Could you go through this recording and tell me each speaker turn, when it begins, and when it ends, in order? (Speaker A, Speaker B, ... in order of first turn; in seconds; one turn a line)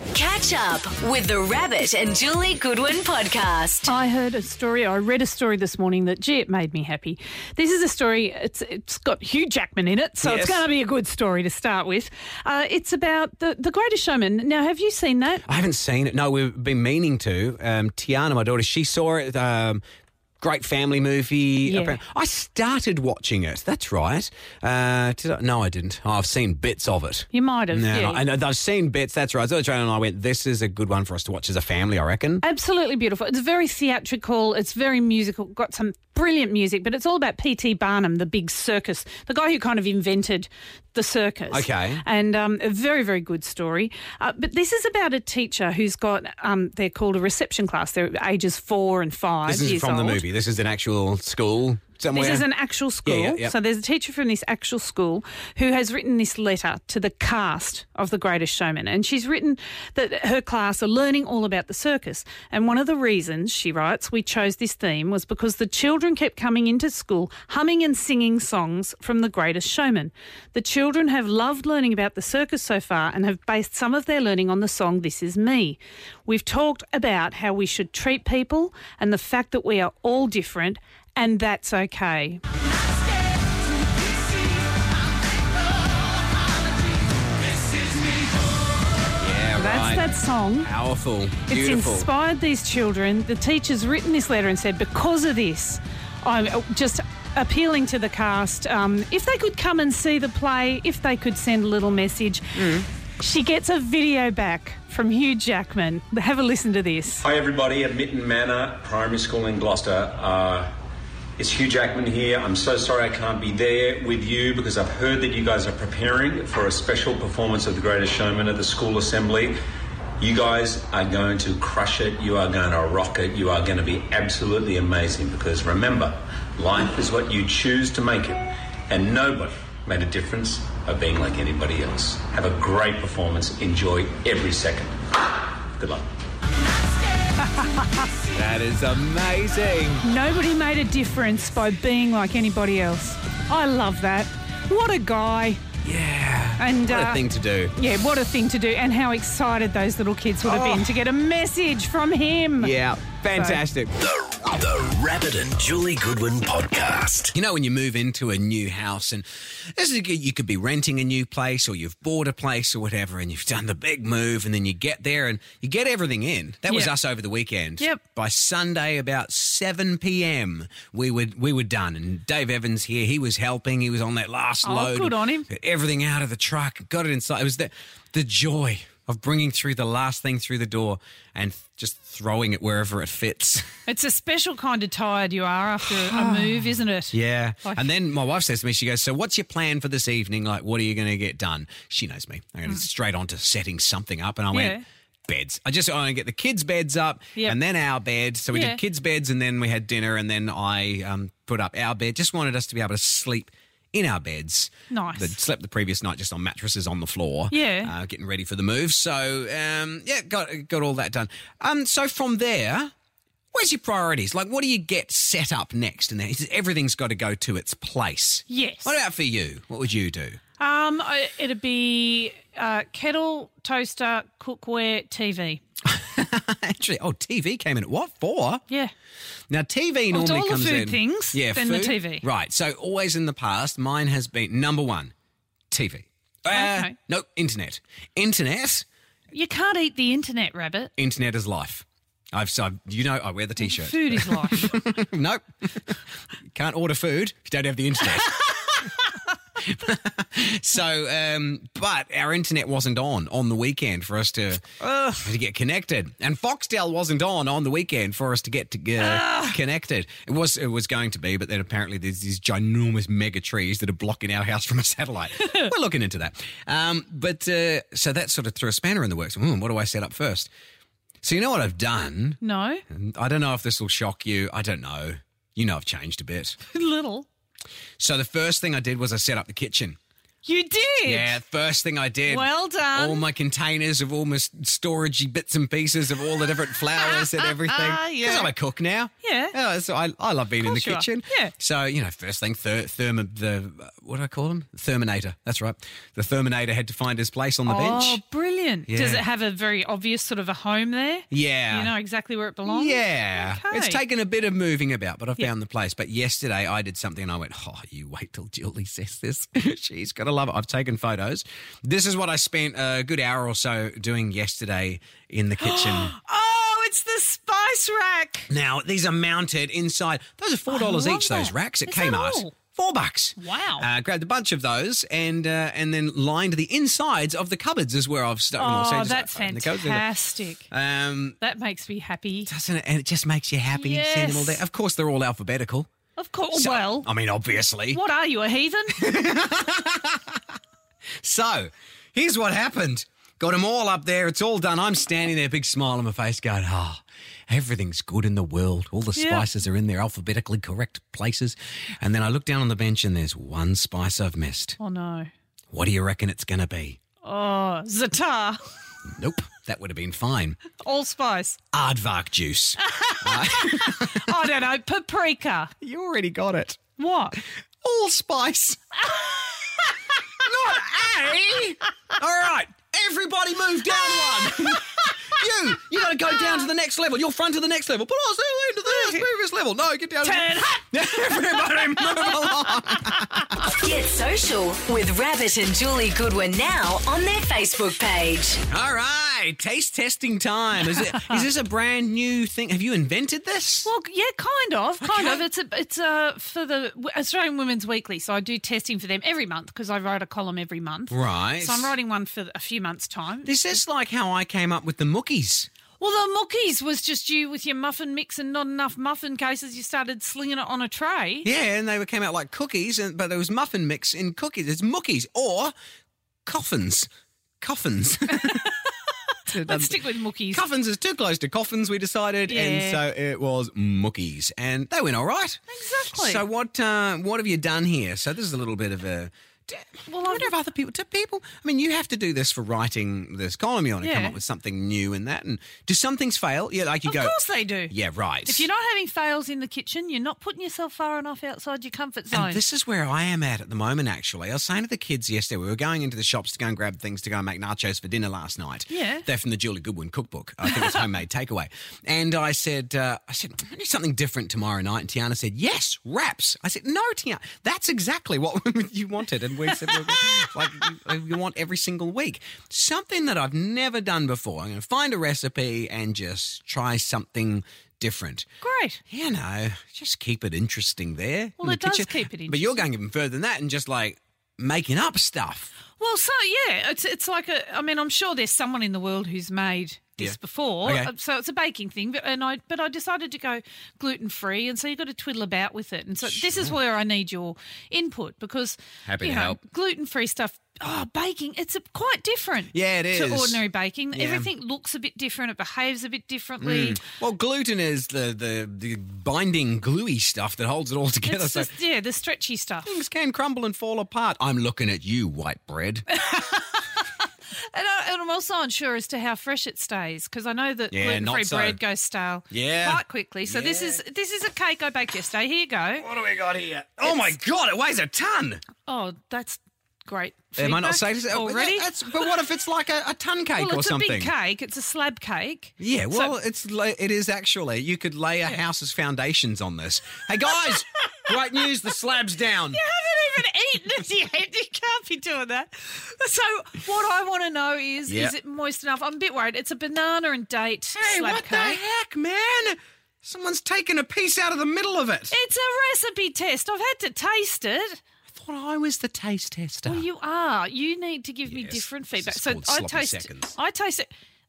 Speaker A: 0.1-3.9
Speaker B: 3.9-15.4
Speaker C: 10.2-10.6
Speaker C: 15.5-19.8
Speaker C: 20.4-32.4
Speaker B: 21.6-22.0
Speaker B: 27.3-28.2
Speaker B: 32.4-50.2
Speaker C: 41.5-42.0
Speaker C: 49.5-52.5
Speaker B: 52.1-82.4
Speaker C: 53.0-53.5
Speaker C: 89.2-92.1
Speaker B: 89.6-90.7
Speaker B: 91.5-102.6
Speaker C: 102.6-102.9
Speaker B: 103.2-107.2
Speaker D: 107.2-110.7
Speaker D: 111.4-119.6
Speaker D: 120.2-135.0
Speaker D: 135.8-136.1
Speaker B: 137.4-138.1
Speaker C: 138.3-140.0
Speaker B: 140.0-145.6
Speaker C: 145.8-147.7
Speaker B: 146.6-147.2
Speaker B: 147.7-152.7
Speaker C: 150.4-150.9
Speaker C: 152.6-153.9
Speaker B: 153.3-153.6
Speaker E: 154.2-157.3
Speaker C: 157.3-183.7
Speaker B: 166.7-166.9
Speaker B: 174.6-175.5
Speaker B: 183.9-187.9
Speaker C: 185.8-212.9
Speaker B: 194.5-194.8
Speaker B: 198.5-198.8
Speaker B: 204.9-205.3
Speaker B: 207.5-207.9
Speaker C: 213.5-220.4
Speaker B: 218.5-219.0
Speaker B: 220.6-225.6
Speaker C: 225.9-228.6
Speaker C: 229.5-235.1
Speaker B: 230.1-232.2
Speaker C: 235.7-238.9
Speaker B: 236.5-236.9
Speaker B: 239.3-240.9
Speaker C: 241.0-246.0
Speaker B: 243.6-244.8
Speaker C: 246.5-249.1
Speaker C: 249.6-270.5
Speaker B: 254.8-255.2
Speaker B: 259.0-259.6
Speaker C: 271.2-276.6
Speaker B: 272.4-272.8
Speaker B: 276.7-277.3
Speaker C: 278.0-280.0
Speaker B: 280.4-281.4
Speaker C: 281.1-298.2
Speaker B: 282.3-283.3
Speaker B: 287.0-288.5
Speaker B: 289.2-289.5
Speaker B: 290.6-291.5
Speaker B: 297.7-304.0
Speaker C: 298.9-299.2
Speaker C: 301.3-301.9
Speaker C: 302.6-316.1
Speaker B: 315.6-318.5
Speaker C: 318.5-330.1
Speaker B: 320.7-322.6
Speaker B: 323.4-323.9
Speaker B: 328.6-330.7
Speaker C: 330.7-331.4
Speaker B: 331.4-332.5
Speaker C: 332.5-335.9
Speaker B: 333.7-334.6
Speaker B: 336.2-337.1
Speaker C: 336.5-338.0
Speaker B: 337.9-339.0
Speaker C: 339.0-340.4
Speaker C: 341.2-354.8
Speaker B: 349.2-349.5
Speaker B: 354.8-355.3
Speaker C: 355.7-357.0
Speaker B: 357.2-358.6
Speaker C: 359.1-360.6
Speaker B: 360.8-361.6
Speaker C: 361.7-364.2
Speaker B: 362.8-365.7
Speaker C: 365.8-366.8
Speaker B: 367.0-367.4
Speaker C: 367.8-369.1
Speaker B: 369.2-369.8
Speaker C: 370.4-383.6
Speaker B: 378.9-379.2
Speaker B: 380.2-383.3
Speaker A: 383.8-388.6
Speaker C: 388.7-393.9
Speaker B: 393.8-403.6
Speaker C: 395.0-395.4
Speaker C: 401.1-401.9
Speaker C: 403.4-405.7
Speaker B: 406.0-411.5
Speaker C: 411.4-415.7
Speaker C: 416.5-417.1
Speaker C: 417.6-418.7
Speaker B: 418.4-418.9
Speaker C: 419.5-420.0
Speaker B: 419.5-420.6
Speaker C: 420.5-425.6
Speaker B: 422.5-423.0
Speaker B: 425.7-426.4
Speaker C: 426.1-437.4
Speaker B: 430.1-430.5
Speaker B: 434.0-434.4
Speaker B: 437.1-437.9
Speaker C: 437.9-438.6
Speaker B: 438.5-442.6
Speaker C: 442.3-468.5
Speaker B: 448.9-449.2
Speaker B: 468.6-469.0
Speaker C: 469.1-475.7
Speaker B: 471.6-472.8
Speaker B: 476.0-497.0
Speaker C: 480.2-481.1
Speaker C: 486.3-486.8
Speaker C: 489.1-489.6
Speaker C: 492.7-493.6
Speaker C: 494.1-494.5
Speaker C: 496.6-501.7
Speaker B: 501.3-503.0
Speaker C: 502.9-506.1
Speaker B: 506.3-506.8
Speaker B: 507.5-516.1
Speaker C: 510.9-511.8
Speaker C: 512.5-514.0
Speaker C: 516.0-518.6
Speaker B: 517.0-517.3
Speaker B: 518.9-521.9
Speaker C: 520.6-524.3
Speaker B: 523.5-526.3
Speaker C: 525.8-532.8
Speaker B: 532.7-541.8
Speaker C: 538.1-538.3
Speaker C: 541.0-545.3
Speaker B: 545.3-548.0
Speaker C: 548.3-550.0
Speaker B: 549.9-554.1
Speaker C: 551.5-553.6